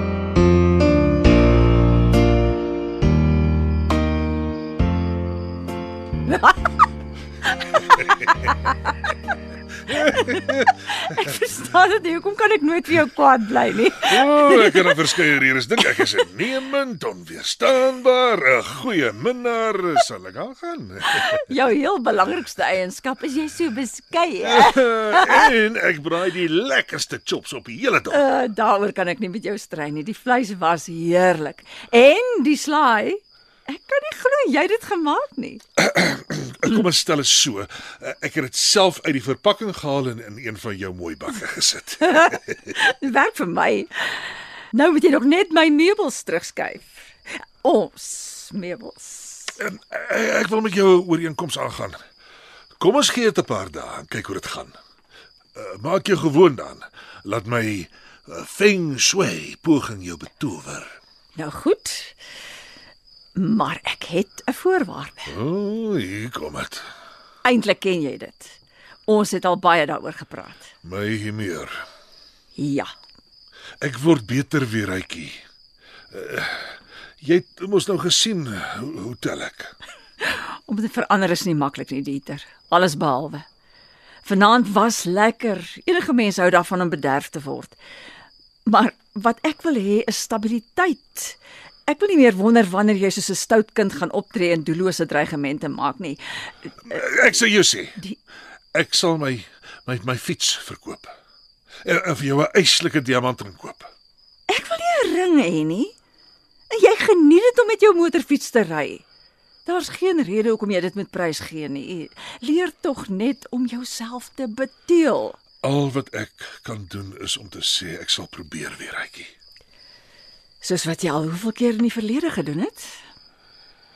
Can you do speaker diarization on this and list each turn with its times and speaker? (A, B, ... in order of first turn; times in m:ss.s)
0:06.2-0:06.6 A
0:07.8-0:08.5 A
0:09.9-0:10.6 B
0:10.1-0:10.3 A
0:10.9-0:15.0 A
0:14.1-0:21.4 B
0:21.2-0:25.5 A
0:24.4-0:28.2 B
0:28.1-0:35.6 A
0:35.8-0:42.6 B
0:42.0-0:43.9 A
0:44.7-0:47.1 A
0:47.6-0:49.6 A
0:49.6-0:52.0 B
0:52.8-0:54.8 B
0:55.5-1:00.9 B
1:01.4-1:02.2 A
1:03.4-1:05.3 A
1:05.3-1:06.8 B
1:07.4-1:08.5 A
1:09.1-1:10.7 A
1:10.8-1:11.8 B
1:12.6-1:12.9 A
1:13.8-1:15.4 B
1:16.1-1:19.7 B
1:20.2-1:23.4 A
1:24.2-1:27.8 A
1:28.6-1:36.2 A
1:36.9-1:38.0 B
1:38.7-1:41.1 B
1:41.8-1:43.9 B
1:44.5-1:45.9 A
1:46.7-1:49.0 A
1:49.6-1:55.4 A
1:55.6-1:59.3 B
2:00.6-2:02.9 A